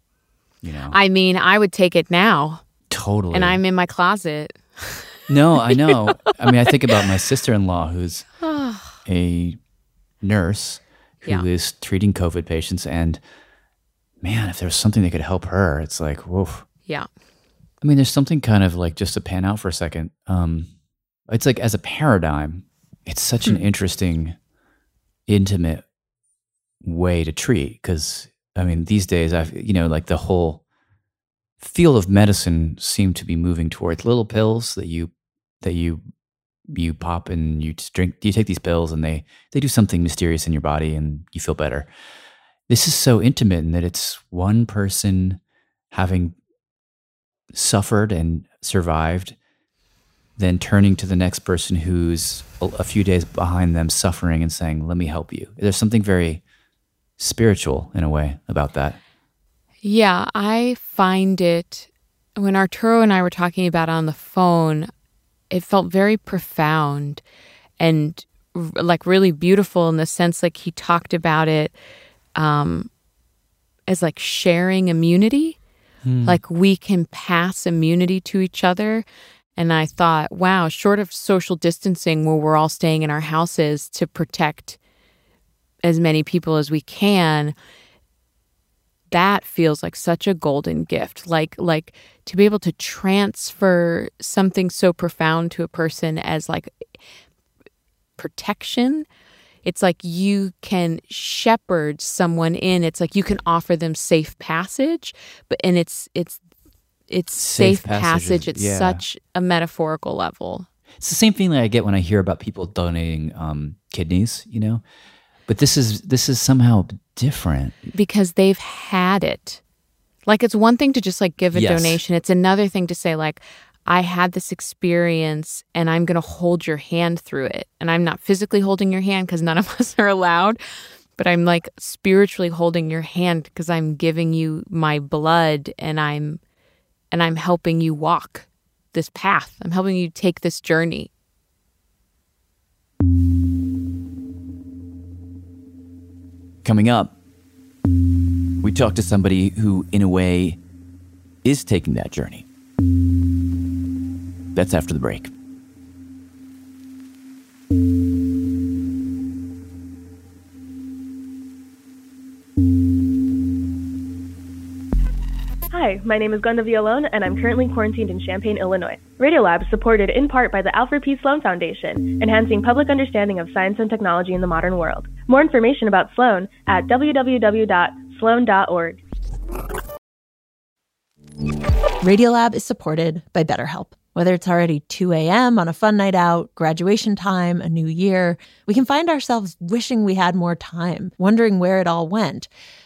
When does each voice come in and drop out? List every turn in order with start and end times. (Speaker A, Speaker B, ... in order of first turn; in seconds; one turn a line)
Speaker A: 0.6-1.0
Speaker B: 0.9-2.6
Speaker A: 2.9-3.6
Speaker B: 3.3-5.0
Speaker A: 5.3-8.3
Speaker B: 5.7-6.0
Speaker B: 8.4-9.0
Speaker A: 8.9-9.6
Speaker A: 10.2-13.2
Speaker A: 14.2-16.6
Speaker A: 17.8-20.7
Speaker A: 21.3-24.4
Speaker A: 25.3-25.8
Speaker A: 26.8-30.6
Speaker A: 31.6-35.1
Speaker A: 35.6-36.0
Speaker A: 36.7-41.9
Speaker A: 42.7-45.4
Speaker A: 45.9-46.4
Speaker A: 47.5-49.3
Speaker A: 50.4-56.4
Speaker A: 57.2-59.0
Speaker B: 59.8-64.9
Speaker B: 65.5-67.2
Speaker B: 67.8-71.7
Speaker B: 72.3-72.9
Speaker B: 73.9-75.6
Speaker A: 76.0-76.4
Speaker B: 76.2-79.0
Speaker B: 79.5-84.8
Speaker B: 85.8-87.5
Speaker B: 89.1-96.9
Speaker B: 98.2-99.0
Speaker B: 99.6-106.4
Speaker B: 107.1-110.7
Speaker A: 107.3-109.0
Speaker A: 111.0-114.8
Speaker A: 115.5-117.8
Speaker B: 117.9-119.6
Speaker B: 120.2-130.6
Speaker A: 121.5-122.0
Speaker B: 131.2-136.4
Speaker B: 137.1-141.1
Speaker A: 146.6-147.1
Speaker A: 148.6-150.6
Speaker A: 151.4-152.4
Speaker A: 154.5-155.3
Speaker C: 165.7-179.0
Speaker D: 182.0-192.5